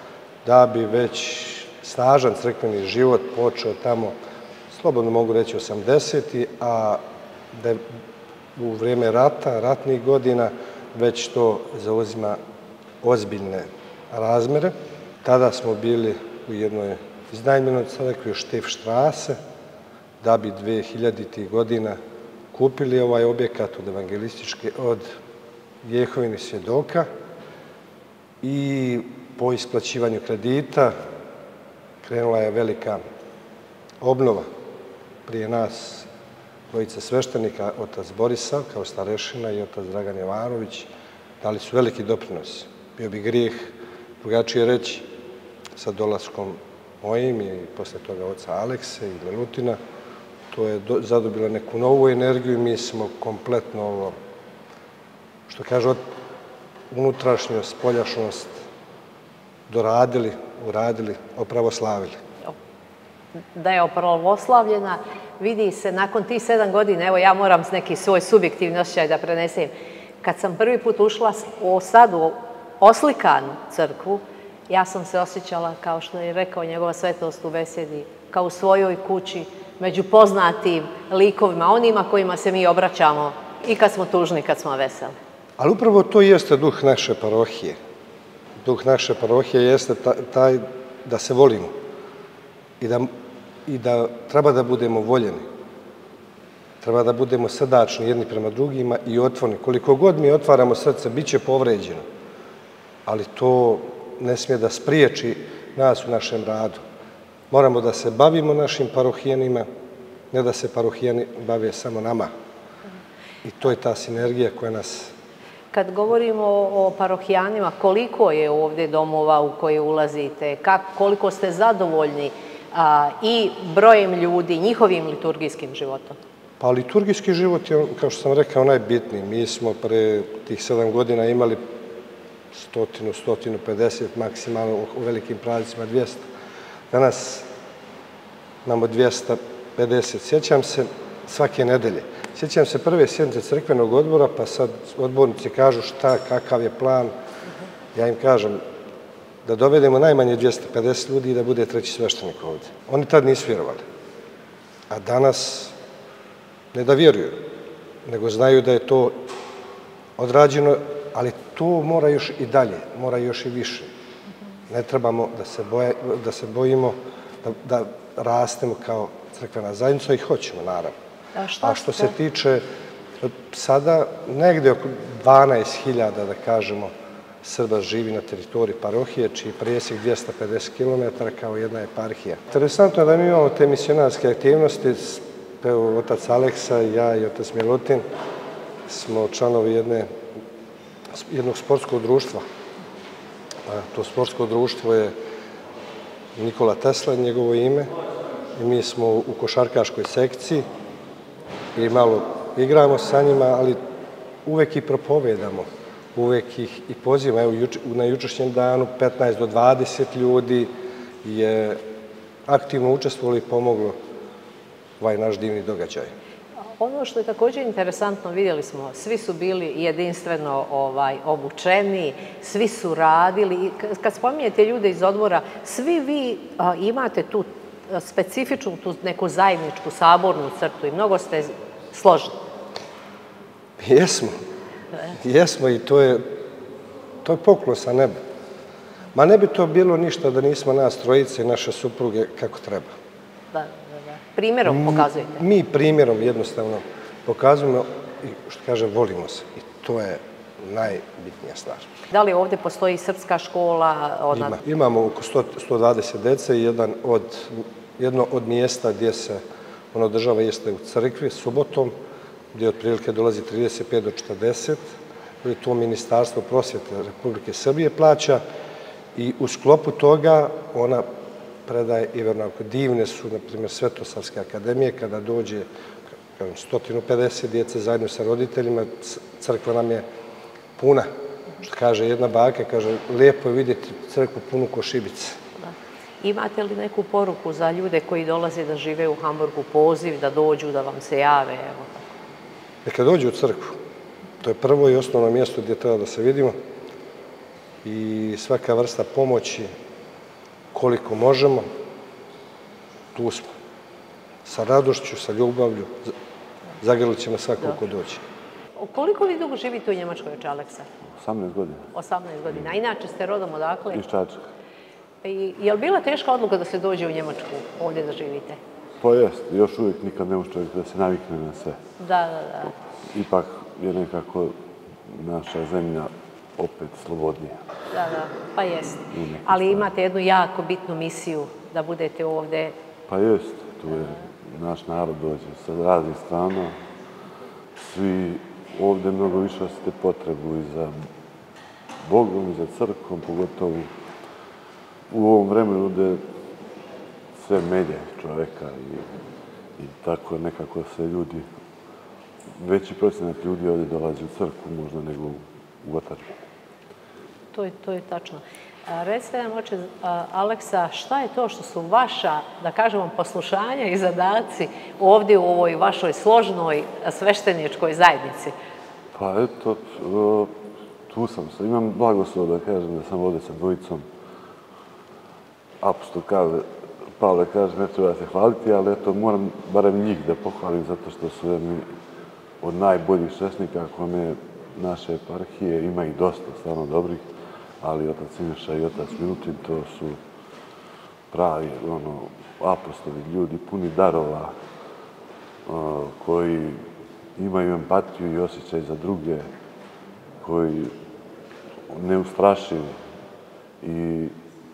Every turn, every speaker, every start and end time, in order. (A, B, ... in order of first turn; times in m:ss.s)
0:00.4-0:04.1 A
0:04.7-0:07.9 A
0:08.6-0:12.4 A
0:13.0-0:19.4 A
0:20.2-0:22.0 A
0:22.5-0:25.1 A
0:25.8-0:27.1 A
0:28.4-0:30.9 A
0:32.0-0:33.0 A
0:34.0-0:34.5 A
0:35.2-0:36.1 A
0:36.7-0:40.9 A
0:41.4-0:45.1 A
0:45.8-0:49.8 A
0:50.5-0:54.2 A
0:55.5-0:56.0 A
0:56.9-0:58.6 A
0:59.7-1:02.2 A
1:03.5-1:25.2 B
1:25.6-1:27.8 A
1:28.6-1:31.8 A
1:32.8-1:33.1 A
1:33.6-1:35.5 A
1:36.8-1:42.0 A
1:43.0-1:46.8 A
1:47.5-1:49.7 A
1:50.3-1:52.3 A
1:53.4-1:55.1 A
1:55.7-2:06.2 B
2:06.6-2:11.7 A
2:12.5-2:16.3 A
2:16.9-2:17.5 A
2:18.6-2:27.1 A
2:27.9-2:28.6 A
2:29.4-2:33.8 A
2:34.9-2:35.8 A
2:36.7-2:37.5 A
2:38.0-2:39.2 A
2:40.2-2:43.9 A
2:44.7-2:50.9 A
2:51.4-2:52.1 B
2:51.6-2:52.6 A
2:53.2-2:56.9 A
2:57.4-3:08.0 A
3:08.9-3:10.1 A
3:11.1-3:12.4 A
3:13.6-3:15.1 A
3:16.4-3:17.9 A
3:18.5-3:20.7 A
3:21.8-3:23.8 A
3:24.4-3:30.7 A
3:31.2-3:31.8 A
3:32.5-3:34.0 A
3:35.0-3:36.1 A
3:36.8-3:52.4 B
3:53.8-3:54.3 A
3:55.1-3:56.4 A
3:57.2-3:58.2 A
3:59.1-4:02.9 A
4:03.5-4:05.4 B
4:04.7-4:11.9 A
4:12.1-4:14.6 B
4:14.3-4:19.4 A
4:19.9-4:21.9 A
4:22.5-4:28.4 A
4:29.1-4:31.0 A
4:31.7-4:35.7 A
4:36.4-4:40.0 A
4:40.8-4:41.1 A
4:41.6-4:45.4 A
4:45.6-4:51.9 B
4:52.8-4:53.8 A
4:54.4-4:56.6 A
4:57.8-4:59.7 A
5:00.7-5:01.7 A
5:03.1-5:03.5 A
5:04.4-5:06.1 A
5:06.8-5:08.2 A
5:08.8-5:10.9 B
5:11.1-5:11.8 C
5:12.0-5:14.0 B
5:13.9-5:14.4 C
5:15.2-5:18.6 B
5:19.0-5:21.8 C
5:22.0-5:22.7 B
5:23.1-5:24.6 C
5:25.1-5:27.6 C
5:27.9-5:32.8 B
5:29.1-5:29.9 C
5:33.1-5:36.8 C
5:37.8-5:41.0 C
5:42.0-5:43.9 C
5:45.1-5:46.2 C
5:47.4-5:49.1 C
5:49.8-5:51.5 C
5:52.6-5:56.3 C
5:57.5-6:08.5 B
6:09.1-6:10.6 C
6:11.1-6:14.0 C
6:15.8-6:16.7 C
6:17.2-6:21.9 C
6:22.6-6:27.2 C
6:27.8-6:30.2 C
6:31.3-6:34.5 C
6:35.7-6:36.8 C
6:37.4-6:39.5 C
6:40.4-6:40.9 C
6:41.9-6:43.0 C
6:43.8-6:44.3 C